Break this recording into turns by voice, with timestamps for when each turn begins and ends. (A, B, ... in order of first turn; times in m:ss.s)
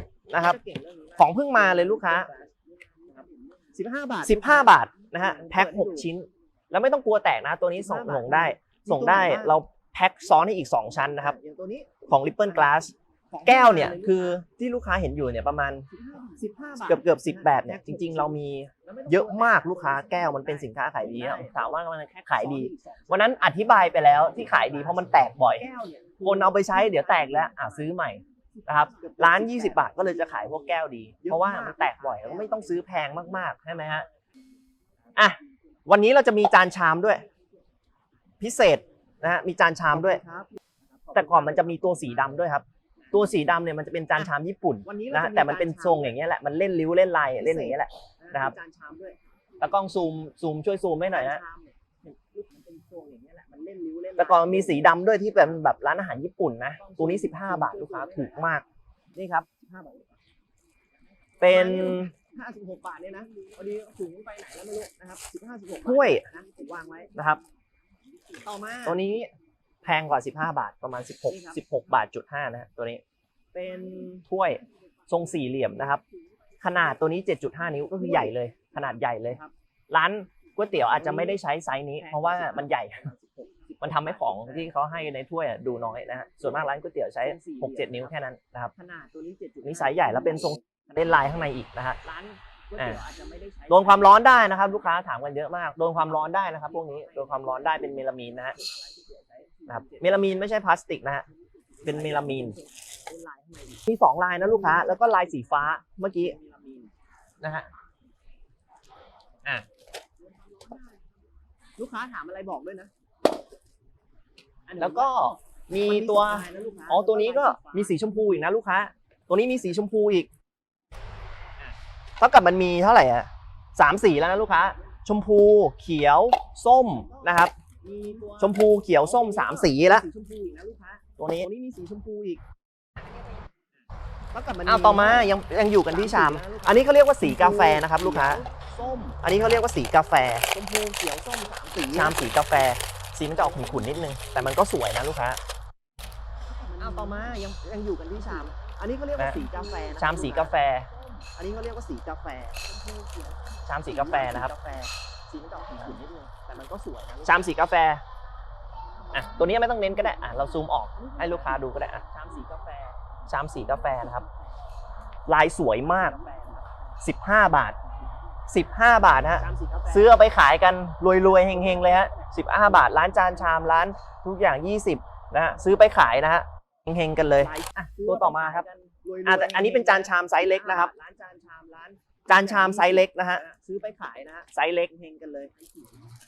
0:00.3-0:00.6 A
0:00.4-0:06.1 B
0:01.2-0:02.3 A
0:04.2-0:11.4 A
0:07.8-0:09.6 B
0:10.7-0:14.4 B
0:12.1-0:12.9 A
0:13.4-0:15.9 A
0:15.9-0:21.8 B
0:16.8-0:25.7 A
0:22.3-0:28.0 B
0:26.2-0:34.1 A
0:28.5-0:34.2 B
0:35.1-0:35.6 B
0:35.2-0:37.2 A
0:38.4-0:40.2 A
0:39.9-0:42.5 B
0:41.1-0:48.6 A
0:44.8-0:46.2 B
0:47.4-0:49.2 B
0:49.6-0:51.4 A
0:51.1-0:55.5 B
0:54.2-0:58.6 A
0:56.8-0:58.6 B
0:59.2-0:59.5 A
0:59.5-1:00.2 B
1:01.4-1:07.4 B
1:01.4-1:02.1 A
1:05.8-1:06.3 A
1:07.2-1:07.4 A
1:08.3-1:09.0 B
1:08.8-1:09.3 A
1:09.8-1:13.0 A
1:11.3-1:11.6 B
1:13.5-1:17.1 B
1:14.2-1:16.0 A
1:16.6-1:23.1 A
1:17.6-1:19.5 B
1:20.6-1:21.4 B
1:22.0-1:24.7 B
1:23.8-1:28.7 A
1:25.7-1:28.1 B
1:28.8-1:31.4 B
1:29.6-1:32.0 A
1:32.0-1:34.8 B
1:33.7-1:38.6 A
1:36.0-1:40.4 B
1:39.7-1:41.3 A
1:41.5-1:46.9 B
1:41.8-1:42.6 A
1:43.9-1:46.4 A
1:47.4-1:47.7 A
1:50.2-1:51.0 B
1:51.8-1:52.9 B
1:54.7-1:58.6 B
1:54.8-2:00.3 A
2:02.2-2:07.6 A
2:04.2-2:04.9 B
2:06.8-2:12.4 B
2:08.4-2:10.1 A
2:11.2-2:11.5 A
2:14.3-2:19.2 B
2:14.7-2:18.4 A
2:19.2-2:20.5 A
2:20.5-2:22.2 B
2:21.9-2:25.4 A
2:23.3-2:24.2 B
2:26.5-2:37.6 B
2:26.9-2:27.2 A
2:29.2-2:29.4 A
2:30.0-2:30.9 A
2:33.7-2:34.5 A
2:37.2-2:38.0 A
2:38.9-2:44.5 B
2:39.1-2:42.0 A
2:43.3-2:44.2 A
2:45.3-2:46.2 A
2:45.8-2:47.1 B
2:47.0-2:47.8 A
2:48.5-2:57.5 A
2:49.3-2:50.2 B
2:51.2-2:53.9 B
2:57.4-3:06.1 B
2:58.0-2:58.6 A
2:59.2-3:00.9 A
3:02.3-3:03.4 A
3:04.5-3:04.9 A